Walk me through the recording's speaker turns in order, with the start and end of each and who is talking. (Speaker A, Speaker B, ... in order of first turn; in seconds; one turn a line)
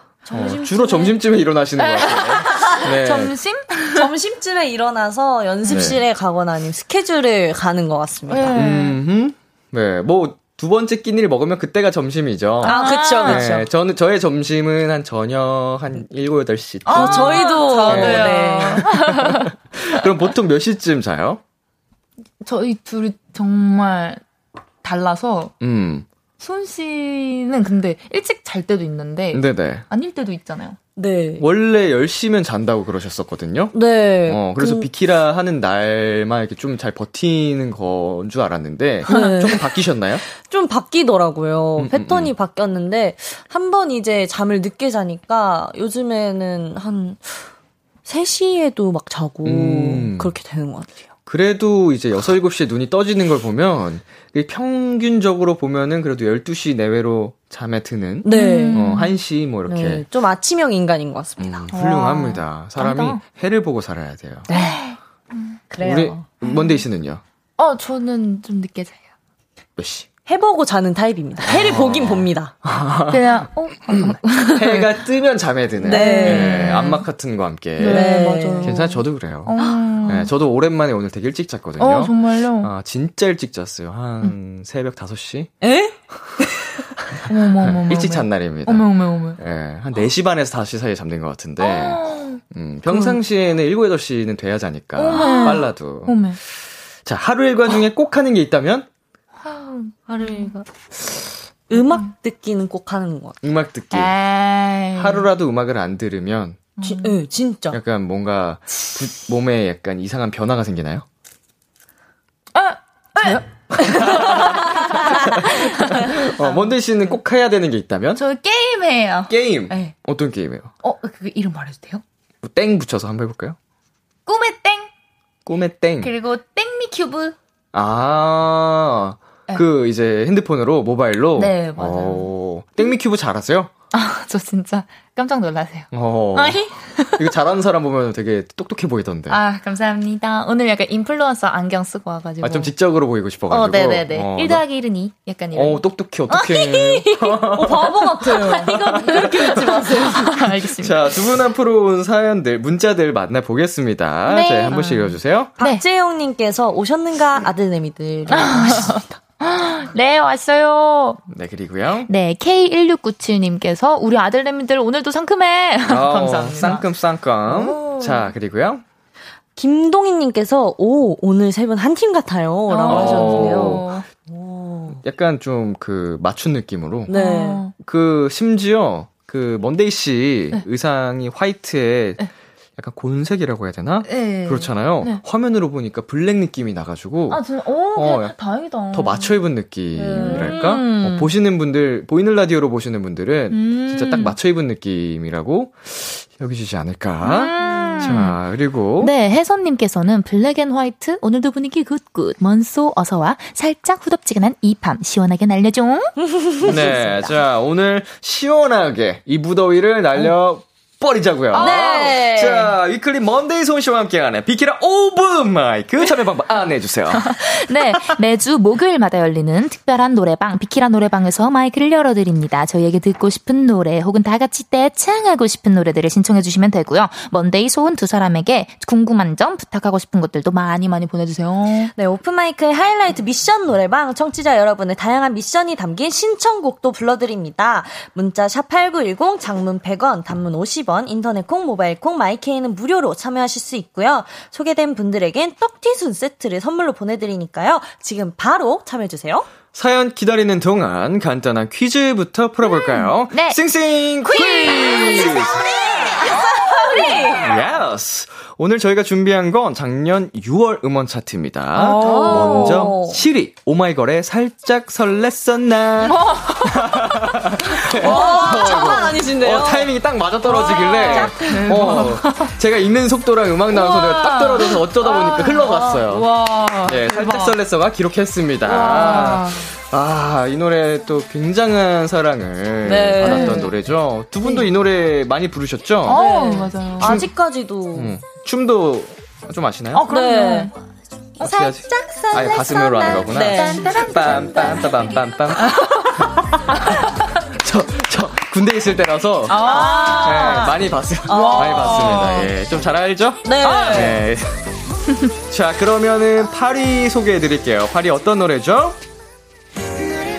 Speaker A: 0.2-1.1
Speaker B: 0.3-3.3
Speaker C: 1.8-4.1
Speaker A: 2.4-2.8
Speaker A: 3.9-8.6
Speaker C: 5.7-5.9
Speaker B: 5.7-6.0
Speaker C: 8.3-9.0
Speaker B: 8.5-21.4
Speaker C: 12.6-13.4
Speaker A: 12.6-13.7
Speaker C: 16.9-19.5
Speaker A: 16.9-18.9
Speaker C: 22.4-24.2
Speaker C: 24.8-25.5
Speaker B: 25.6-26.1
Speaker C: 26.4-30.8
Speaker B: 29.3-29.8
Speaker A: 30.9-31.4
Speaker B: 31.4-33.8
Speaker A: 33.7-34.9
Speaker B: 34.2-40.2
Speaker A: 39.0-39.6
Speaker C: 39.1-39.5
Speaker A: 40.2-47.5
Speaker B: 41.8-42.3
Speaker A: 48.0-51.0
Speaker B: 49.4-50.3
Speaker B: 51.3-60.0
Speaker A: 58.2-58.8
Speaker C: 58.3-59.1
Speaker A: 59.6-61.6
Speaker B: 61.4-64.5
Speaker C: 61.7-63.2
Speaker A: 64.5-64.8
Speaker C: 64.5-65.6
Speaker A: 65.7-66.3
Speaker B: 65.8-67.2
Speaker C: 66.4-66.8
Speaker C: 67.6-69.0
Speaker B: 69.8-70.1
Speaker A: 70.2-72.5
Speaker B: 71.5-85.5
Speaker C: 73.1-75.0
Speaker A: 75.8-76.8
Speaker C: 75.8-77.0
Speaker C: 77.8-80.3
Speaker A: 77.8-78.7
Speaker A: 79.6-80.0
Speaker C: 81.8-82.7
Speaker A: 85.6-86.7
Speaker B: 87.0-96.2
Speaker C: 87.2-89.4
Speaker C: 91.6-93.2
Speaker C: 95.0-96.4
Speaker A: 95.1-95.6
Speaker B: 97.0-98.9
Speaker C: 99.4-100.7
Speaker A: 101.7-103.4
Speaker C: 101.7-102.1
Speaker B: 103.4-104.1
Speaker C: 103.9-105.3
Speaker B: 104.9-106.7
Speaker C: 106.8-107.2
Speaker A: 106.8-107.8
Speaker B: 107.7-111.0
Speaker C: 112.5-116.7
Speaker B: 113.8-114.8
Speaker A: 114.8-115.5
Speaker B: 115.4-118.2
Speaker C: 118.2-119.9
Speaker B: 119.3-120.7
Speaker C: 120.8-122.0
Speaker B: 122.4-123.6
Speaker C: 124.3-124.9
Speaker B: 125.5-126.1
Speaker C: 126.0-127.3
Speaker B: 127.7-133.7
Speaker C: 131.3-132.3
Speaker C: 133.9-137.3
Speaker B: 135.9-139.4
Speaker C: 139.3-142.7
Speaker B: 142.4-144.6
Speaker C: 143.5-151.3
Speaker B: 145.5-150.0
Speaker A: 147.5-150.4
Speaker B: 150.8-155.5
Speaker C: 154.2-155.8
Speaker A: 155.6-159.2
Speaker C: 158.3-161.2
Speaker B: 161.3-162.1
Speaker C: 162.1-166.8
Speaker B: 165.8-168.8
Speaker C: 167.4-168.3
Speaker A: 169.6-175.0
Speaker C: 172.7-174.1
Speaker B: 172.9-173.9
Speaker B: 175.0-177.1
Speaker A: 177.1-177.6
Speaker C: 177.1-177.7
Speaker B: 177.8-182.2
Speaker B: 182.8-187.4
Speaker C: 184.0-185.2
Speaker C: 187.3-189.3
Speaker B: 187.9-188.3
Speaker B: 188.9-199.1
Speaker A: 189.9-190.7
Speaker C: 190.1-191.3
Speaker C: 193.5-194.4
Speaker C: 197.2-198.4
Speaker A: 197.6-198.1
Speaker C: 199.0-207.4
Speaker A: 206.3-206.6
Speaker B: 206.6-217.5
Speaker C: 211.5-212.1
Speaker A: 211.6-212.7
Speaker C: 217.3-231.9
Speaker A: 231.9-249.5
Speaker B: 249.7-256.3
Speaker C: 252.8-253.6
Speaker C: 254.2-255.7
Speaker A: 254.4-257.5
Speaker C: 257.0-257.3
Speaker B: 257.4-276.3
Speaker C: 261.7-262.9
Speaker A: 262.0-263.2
Speaker C: 266.0-267.4
Speaker A: 267.9-269.9
Speaker C: 267.9-269.1
Speaker A: 270.4-272.0
Speaker C: 270.5-272.5
Speaker C: 273.7-277.6
Speaker B: 276.8-286.2
Speaker C: 278.6-279.7
Speaker A: 282.9-283.6
Speaker C: 283.2-283.7
Speaker C: 286.1-287.2
Speaker A: 286.1-288.2
Speaker B: 287.0-287.3
Speaker B: 287.9-290.1
Speaker C: 289.9-290.7
Speaker A: 290.1-290.7
Speaker A: 291.4-294.0
Speaker B: 291.4-296.0
Speaker C: 293.4-295.0
Speaker C: 295.7-296.0
Speaker A: 295.9-296.8
Speaker B: 297.5-304.6
Speaker C: 299.5-302.5
Speaker A: 299.6-300.7
Speaker A: 301.3-302.0
Speaker A: 303.4-304.2
Speaker C: 303.6-304.2
Speaker B: 305.5-309.0